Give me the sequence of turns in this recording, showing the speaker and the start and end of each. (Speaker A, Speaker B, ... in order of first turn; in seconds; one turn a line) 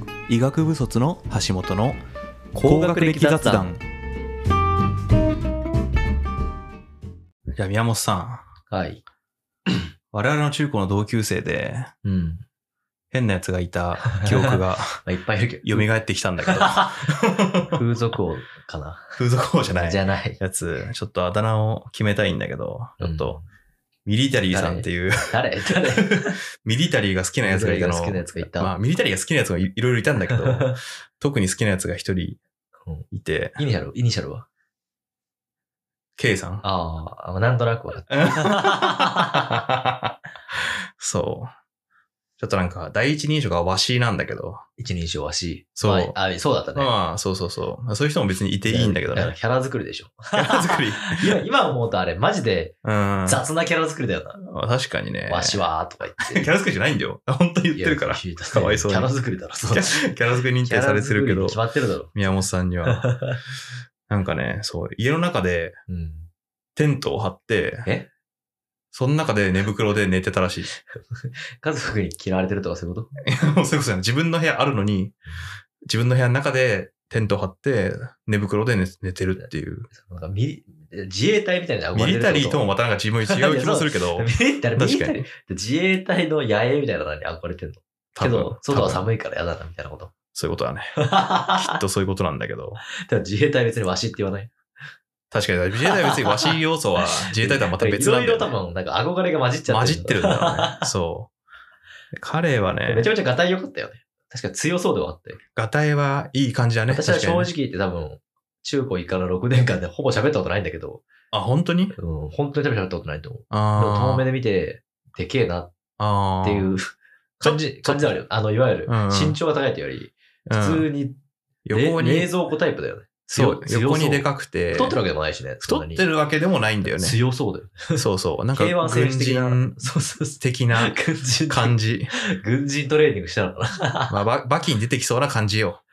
Speaker A: 0.3-2.0
Speaker B: 2.5-3.7
Speaker A: 2.6-3.8
Speaker A: 7.5-8.5
Speaker B: 8.7-9.0
Speaker A: 10.1-11.9
Speaker B: 12.0-12.4
Speaker A: 13.1-15.0
Speaker B: 14.1-15.9
Speaker A: 15.6-17.8
Speaker B: 16.4-16.9
Speaker B: 17.7-19.2
Speaker A: 19.2-23.4
Speaker B: 19.7-20.4
Speaker B: 23.0-23.4
Speaker A: 24.1-32.4
Speaker B: 24.5-26.4
Speaker B: 27.4-28.7
Speaker B: 30.3-30.8
Speaker B: 32.8-34.5
Speaker A: 33.1-33.6
Speaker A: 36.2-36.6
Speaker B: 36.6-39.4
Speaker A: 38.1-41.5
Speaker A: 42.4-44.6
Speaker B: 44.8-46.9
Speaker A: 45.8-46.1
Speaker A: 46.7-49.3
Speaker B: 48.6-54.4
Speaker A: 50.3-51.4
Speaker A: 52.8-53.4
Speaker A: 54.4-55.6
Speaker B: 55.3-56.5
Speaker A: 56.2-59.1
Speaker B: 57.7-62.1
Speaker A: 59.7-61.6
Speaker A: 62.1-63.1
Speaker B: 62.9-63.4
Speaker A: 64.1-65.8
Speaker B: 65.9-66.3
Speaker A: 66.8-67.9
Speaker A: 68.9-70.7
Speaker B: 70.9-73.1
Speaker A: 73.2-75.1
Speaker A: 75.9-79.9
Speaker B: 79.4-82.7
Speaker A: 81.9-85.2
Speaker B: 83.2-90.1
Speaker A: 88.2-89.1
Speaker A: 90.3-91.0
Speaker B: 91.0-91.8
Speaker A: 91.6-92.8
Speaker B: 93.0-94.5
Speaker A: 95.3-98.5
Speaker B: 95.8-100.9
Speaker A: 99.7-101.3
Speaker A: 102.1-103.1
Speaker B: 102.8-105.4
Speaker A: 105.5-107.5
Speaker B: 106.9-111.0
Speaker A: 111.3-111.9
Speaker B: 111.9-115.7
Speaker A: 113.5-114.2
Speaker A: 116.0-116.7
Speaker B: 116.4-121.2
Speaker A: 117.4-118.1
Speaker A: 118.9-119.4
Speaker A: 120.5-120.9
Speaker A: 121.7-122.3
Speaker B: 121.7-126.1
Speaker A: 123.3-125.0
Speaker A: 125.6-127.2
Speaker B: 126.8-134.2
Speaker A: 127.9-129.8
Speaker A: 130.4-132.1
Speaker A: 134.1-135.8